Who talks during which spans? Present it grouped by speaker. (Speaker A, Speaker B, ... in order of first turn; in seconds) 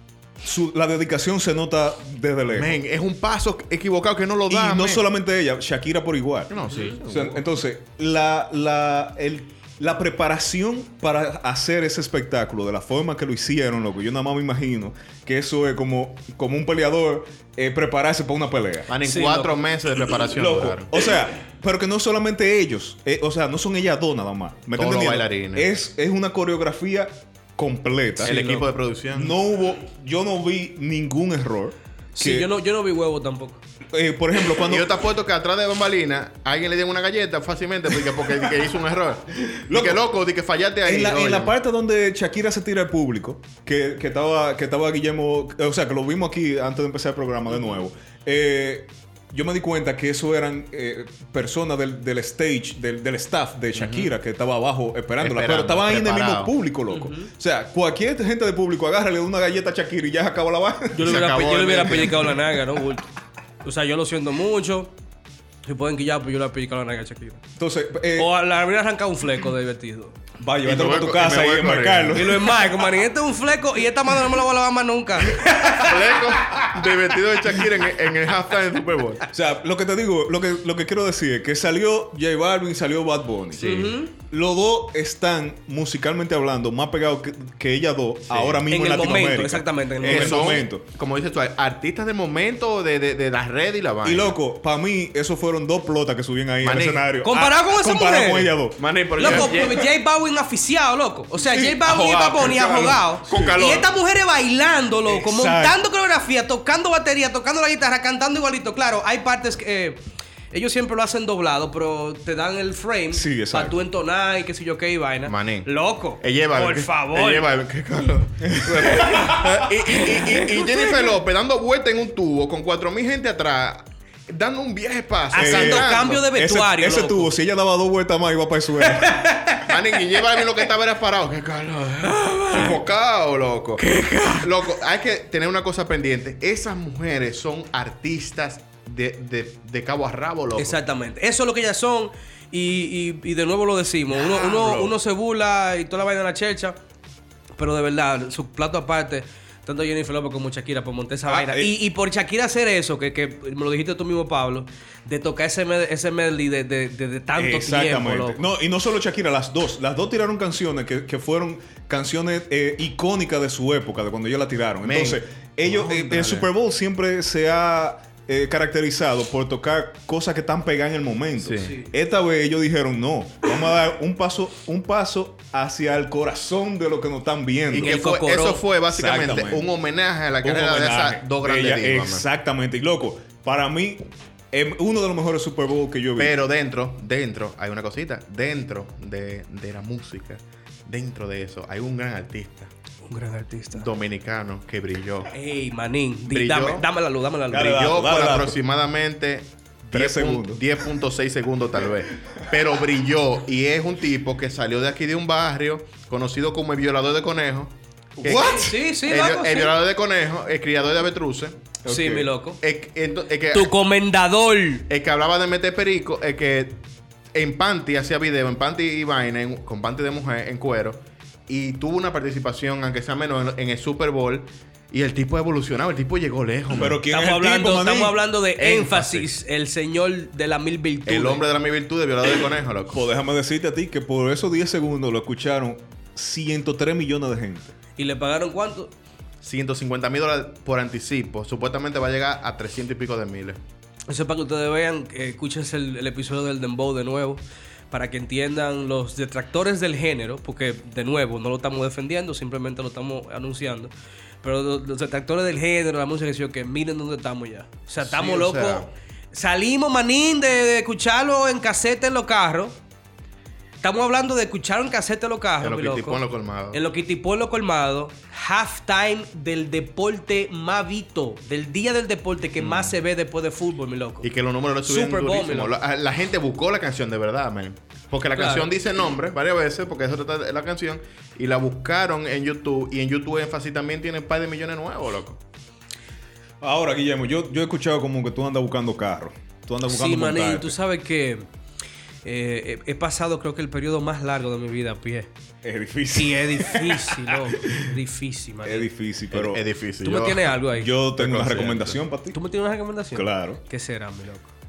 Speaker A: 0.4-2.8, 4.5-18.9, 20.3-28.6, 29.1-32.5, 33.9-34.9, 39.4-40.0, 40.9-61.3, 67.6-68.3, 70.4-72.6, 79.3-90.8, 94.0-99.6, 105.0-105.8, 113.1-113.8, 118.4-119.7, 125.3-129.3, 151.3-151.7, 157.3-178.0, 178.9-179.7, 180.4-186.4, 197.5-198.6, 199.9-200.7, 208.2-208.7, 211.8-212.3, 226.7-228.2, 232.9-237.8, 286.6-290.8, 295.6-297.9, 298.6-299.6, 300.7-302.4, 303.1-303.6
Speaker B: 2.5-5.0, 6.5-7.4, 18.9-20.9, 24.8-25.7, 28.2-29.4, 34.5-41.5, 53.8-54.1, 55.2-56.5, 61.0-62.4, 70.6-72.4, 75.6-79.2, 83.5-84.0, 88.3-88.7, 90.0-94.4, 96.6-97.1, 98.8-99.8, 101.6-103.9, 115.2-126.3, 129.6-140.8, 144.1-144.9, 164.8-166.5, 171.4-171.7, 177.7-182.2, 186.2-192.7, 193.8-195.3, 196.3-196.9, 197.5-211.7, 212.6-213.7, 214.9-216.8, 217.3-227.0, 228.6-229.3, 231.1-233.0, 239.4-243.6, 258.0-258.9, 265.6-266.8, 272.6-272.9, 274.2-285.4, 299.3-300.6, 301.2-301.9
Speaker C: 6.6-7.0, 19.0-19.6, 28.3-28.6, 32.1-33.6, 56.9-57.3, 60.9-63.1, 63.6-64.9, 65.6-67.4, 68.2-70.2, 72.2-76.2, 83.6-84.1, 88.7-90.5, 97.2-98.5, 99.2-110.0, 110.5-117.5, 119.9-121.1, 125.3-127.3, 128.8-129.7, 133.8-134.5, 140.6-146.8, 147.6-158.4, 177.8-178.6, 193.1-193.9, 195.3-197.8, 208.2-209.7, 211.9-212.6, 213.5-214.9, 227.1-231.4, 238.0-238.9, 244.1-253.9, 254.4-262.8, 263.8-274.3, 274.9-275.7, 278.4-278.7, 289.9-291.4, 292.2-295.3, 296.1-298.9, 300.0-301.0, 302.3-304.5